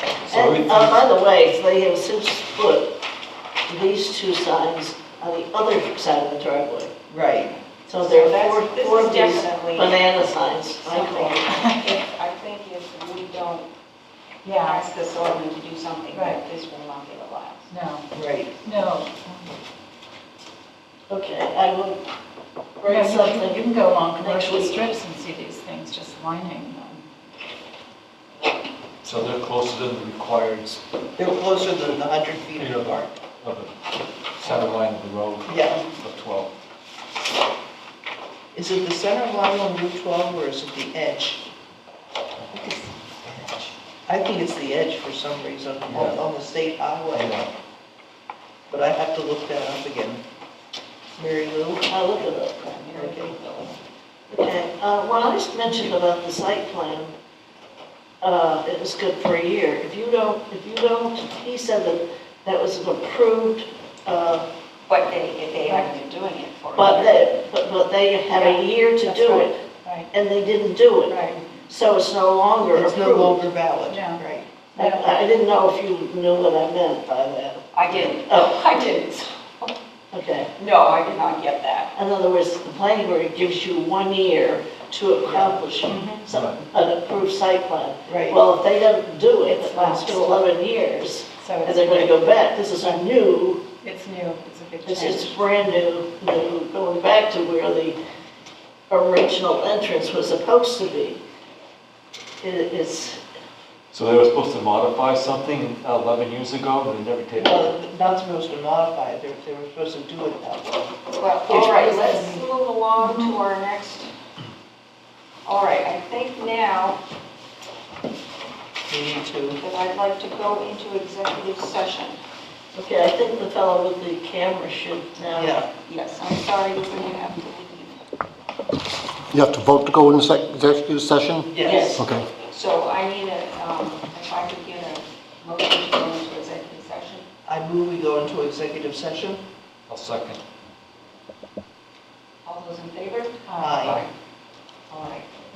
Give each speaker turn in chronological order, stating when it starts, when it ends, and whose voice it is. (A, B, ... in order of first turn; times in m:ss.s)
0:00.3-0:01.0 A
0:00.3-0:02.9 B
0:03.7-0:06.9 B
0:07.1-0:07.6 C
0:07.9-0:11.6 B
0:07.9-0:10.1 D
0:10.8-0:13.7 D
0:14.4-0:14.9 E
0:14.6-0:17.7 D
0:16.1-0:16.4 E
0:17.7-0:18.0 E
0:18.1-0:18.5 C
0:18.6-0:19.5 E
0:21.1-0:22.0 B
0:22.8-0:24.9 B
0:22.8-0:27.1 E
0:29.0-0:30.8 A
0:31.2-0:33.1 C
0:32.6-0:33.7 A
0:34.4-0:36.5 A
0:35.5-0:35.8 C
0:38.5-0:41.4 C
0:44.1-0:47.4 C
0:45.9-0:46.2 A
0:47.1-0:47.5 A
0:48.7-0:50.2 C
0:51.2-0:51.9 C
0:51.9-0:53.3 B
0:52.2-0:53.8 D
0:54.3-0:57.2 B
0:58.2-1:04.5 B
1:04.9-1:07.3 D
1:05.6-1:06.0 E
1:06.8-1:09.6 B
1:08.3-1:10.1 E
1:10.1-1:13.4 B
1:11.1-1:11.4 E
1:12.7-1:14.5 C
1:13.9-1:14.2 E
1:14.8-1:18.7 B
1:14.8-1:15.2 E
1:17.8-1:19.7 D
1:20.1-1:20.5 B
1:20.6-1:21.9 D
1:22.0-1:33.6 B
1:25.3-1:25.6 C
1:25.9-1:26.2 D
1:26.3-1:26.6 A
1:28.1-1:28.4 C
1:29.4-1:30.4 C
1:31.4-1:32.1 E
1:33.8-1:35.5 E
1:34.8-1:38.0 B
1:38.9-1:41.2 B
1:42.4-1:43.2 B
1:43.9-1:47.7 A
1:47.4-1:50.9 C
1:51.2-1:54.1 D
1:51.6-1:52.4 E
1:53.0-1:53.4 E
1:55.5-1:57.0 D
1:58.9-1:59.6 C
1:59.6-2:02.2 D
2:02.8-2:05.6 B
2:05.4-2:05.7 C
2:05.8-2:08.0 D
2:09.3-2:12.2 F
2:11.5-2:12.0 C
2:11.6-2:17.3 D
2:17.5-2:19.4 C
2:19.9-2:20.4 A
2:22.4-2:24.0 D
2:23.5-2:23.9 E
2:23.6-2:24.0 C
2:24.9-2:25.3 D